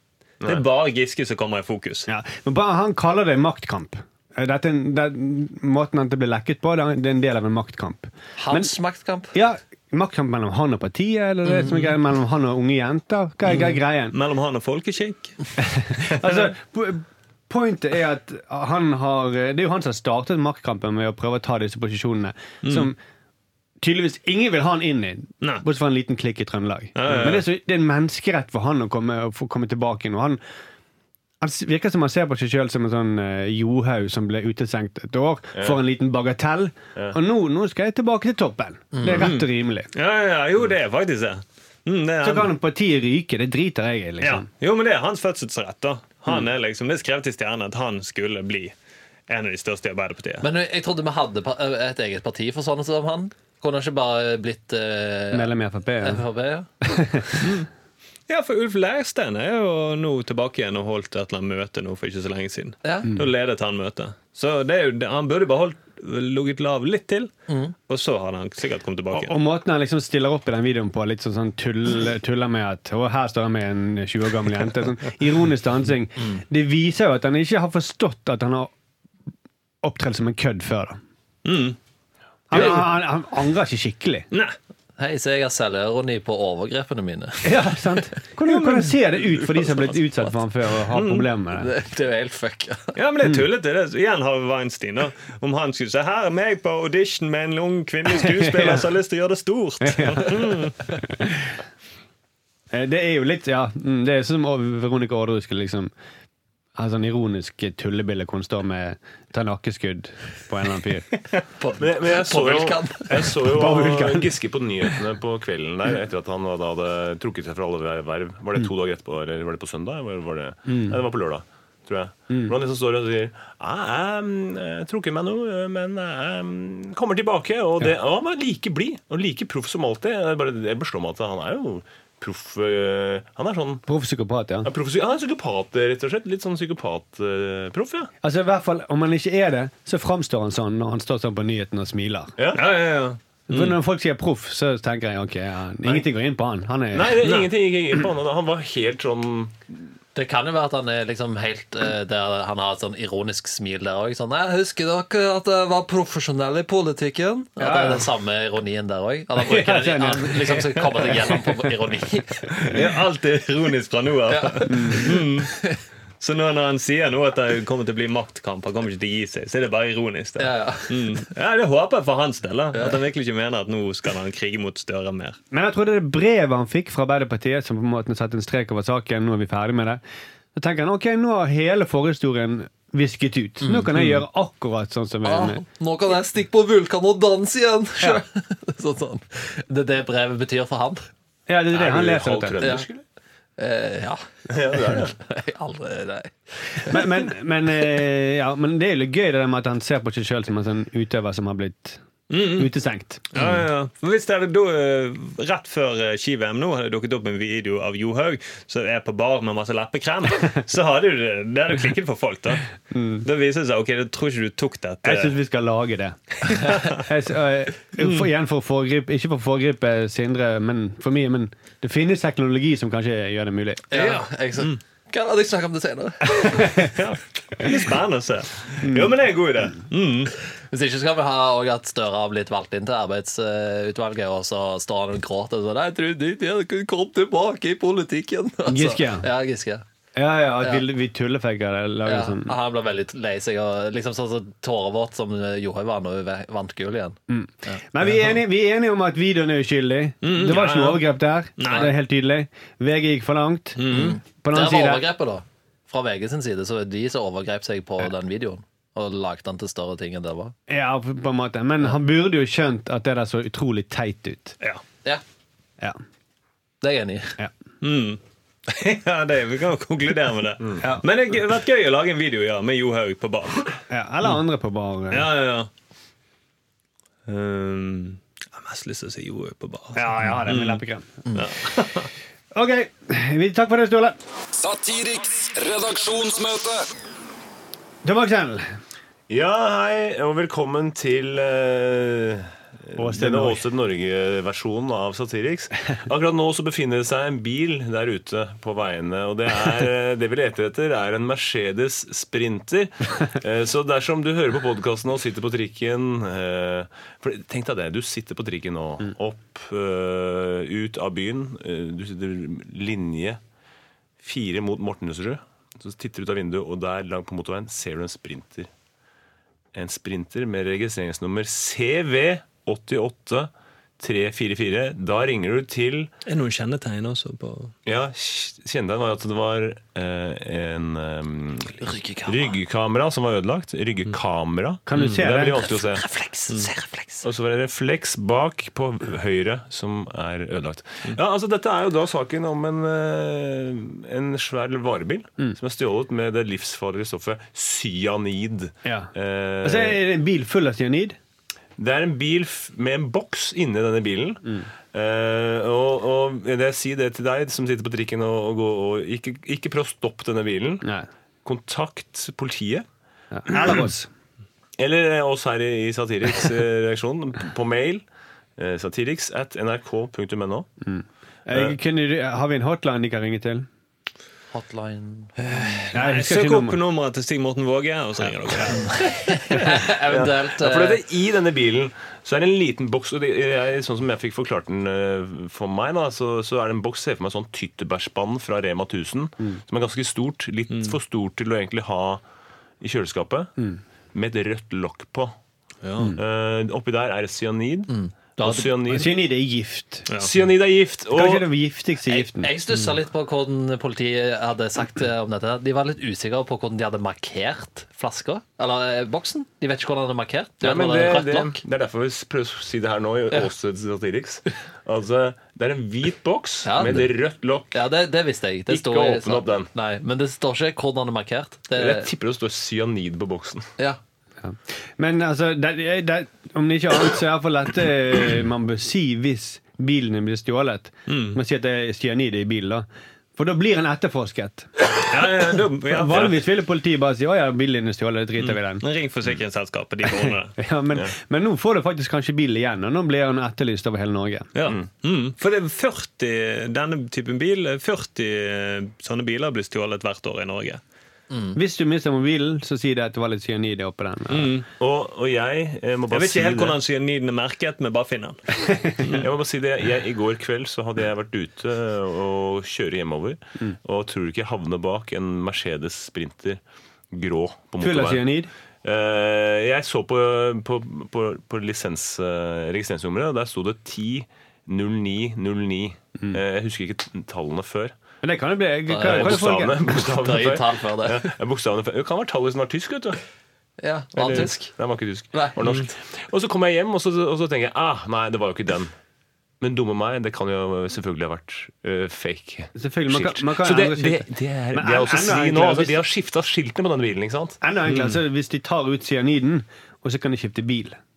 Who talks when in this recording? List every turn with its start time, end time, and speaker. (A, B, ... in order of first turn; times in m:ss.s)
0:00.4-0:02.1 A
0:02.1-0:08.7 B
0:08.4-0:09.3 C
0:09.3-0:14.2 B
0:11.5-0:11.9 C
0:13.5-0:16.5 A
0:15.7-0:23.0 B
0:22.6-0:22.9 A
0:23.8-0:30.4 B
0:26.9-0:27.5 A
0:31.4-0:39.9 B
0:38.9-0:39.3 C
0:39.1-0:42.5 A
0:42.2-0:44.5 B
0:44.2-0:48.7 A
0:49.3-0:50.4 A
0:50.4-0:56.7 C
0:55.3-0:56.2 B
0:56.8-0:57.5 B
0:57.4-0:57.7 A
0:58.3-1:07.3 A
1:02.8-1:03.1 C
1:07.5-1:07.7 C
1:07.9-1:09.4 A
1:09.1-1:18.7 B
1:19.8-1:21.0 B
1:21.4-1:21.8 A
1:22.5-1:24.3 B
1:25.0-1:27.6 C
1:27.4-1:31.7 B
1:28.4-1:29.0 A
1:30.9-1:31.3 A
1:31.6-1:32.9 C
1:32.9-1:40.9 A
1:39.8-1:40.4 B
1:41.2-1:41.4 B
1:42.7-1:45.9 B
1:46.8-1:51.1 B
1:51.6-1:53.3 C
1:51.8-2:13.8 D
1:53.3-1:54.3 B
2:00.7-2:01.0 B
2:13.9-2:14.7 B
2:14.6-2:18.1 D
2:18.2-2:22.3 B
2:22.4-2:22.6 D
2:22.5-2:23.8 A
2:23.5-2:27.2 B
2:26.9-2:29.6 D
2:27.2-2:27.5 A
2:30.1-2:42.7 C
2:37.6-2:38.0 B
2:39.4-2:40.6 B
2:42.6-2:45.6 A
2:44.3-2:45.8 C
2:44.7-2:45.1 B
2:46.2-2:55.4 A
2:50.4-2:51.2 C
2:55.5-3:00.0 B
3:00.5-3:05.6 B
3:03.6-3:03.9 C
3:03.9-3:04.2 A
3:05.2-3:11.1 C
3:11.5-3:12.7 B
3:11.7-3:13.0 D
3:12.6-3:12.9 C
3:13.6-3:17.1 C
3:14.5-3:15.1 D
3:16.8-3:23.3 B
3:22.3-3:22.7 A
3:23.3-3:35.4 A
3:32.9-3:33.2 B
3:35.0-3:44.0 B
3:36.5-3:37.0 A
3:38.0-3:38.3 A
3:43.9-3:46.8 C
3:46.6-3:46.9 B
3:46.6-3:50.3 A
3:48.8-3:49.2 B
3:50.7-3:59.8 C
3:58.7-3:59.3 B
4:00.1-4:02.6 B
4:02.0-4:07.8 C
4:07.3-4:15.1 B
4:10.2-4:11.9 A
4:11.6-4:11.9 C
4:13.8-4:14.2 A
4:13.9-4:20.5 C
4:20.7-4:24.6 B
4:26.8-4:27.4 C
4:27.8-4:33.7 A
4:33.9-4:35.3 B
4:35.1-4:35.7 A
4:37.3-4:40.8 A
4:39.9-4:41.1 B
4:41.3-4:42.1 A
4:42.5-4:44.2 B
4:44.5-4:46.9 E
4:48.0-4:48.6 B
4:49.3-5:13.4 D
4:53.0-4:53.6 B
5:14.2-5:18.7 D
5:19.7-5:26.1 D
5:26.2-5:27.7 A
5:27.8-5:36.0 D
5:31.8-5:32.5 C
5:34.9-5:35.7 B
5:34.9-5:35.2 A
5:35.6-5:37.2 C
5:37.2-5:50.0 D
5:48.8-5:49.1 B
5:49.6-5:51.2 B
5:51.8-6:00.9 D
6:00.8-6:01.1 B
6:01.4-6:02.8 D
6:03.3-6:04.1 B
6:04.8-6:08.0 D
6:08.6-6:10.7 D
6:10.8-6:13.7 B
6:14.5-6:15.8 C
6:15.4-6:19.1 A
6:15.9-6:16.8 B
6:18.7-6:21.0 C
6:19.9-6:32.2 D
6:30.7-6:31.0 A
6:32.8-6:33.5 D
6:34.1-6:35.3 D
6:35.8-6:36.1 A
6:36.1-6:39.1 D
6:37.9-6:38.8 C
6:38.9-6:40.1 B
6:40.2-6:41.5 D
6:41.1-6:42.5 B
6:42.1-6:51.6 C
6:50.6-6:57.8 D
6:56.6-6:57.1 C
6:57.7-7:02.1 C
6:58.7-6:59.7 D
7:01.7-7:03.7 D
7:04.4-7:12.8 B
7:11.1-7:11.4 A
7:13.4-7:14.7 B
7:14.9-7:16.4 A
7:15.8-7:18.8 B
7:18.4-7:20.6 A
7:20.1-7:24.5 B
7:24.5-7:30.8 A
7:31.3-7:31.6 C
7:31.5-7:34.6 B
7:34.3-7:34.6 A
7:34.8-7:36.8 D
7:36.1-7:39.3 A
7:38.7-7:39.0 B
7:39.1-7:48.3 D
7:47.8-7:48.5 B
7:48.8-7:58.0 D
7:58.2-7:59.8 B
7:58.9-8:01.3 C
7:59.0-8:03.2 D
8:03.8-8:04.7 C
8:04.2-8:08.9 D
8:09.6-8:17.6 D
8:12.7-8:16.0 B
8:17.6-8:21.0 B
8:17.9-8:18.2 A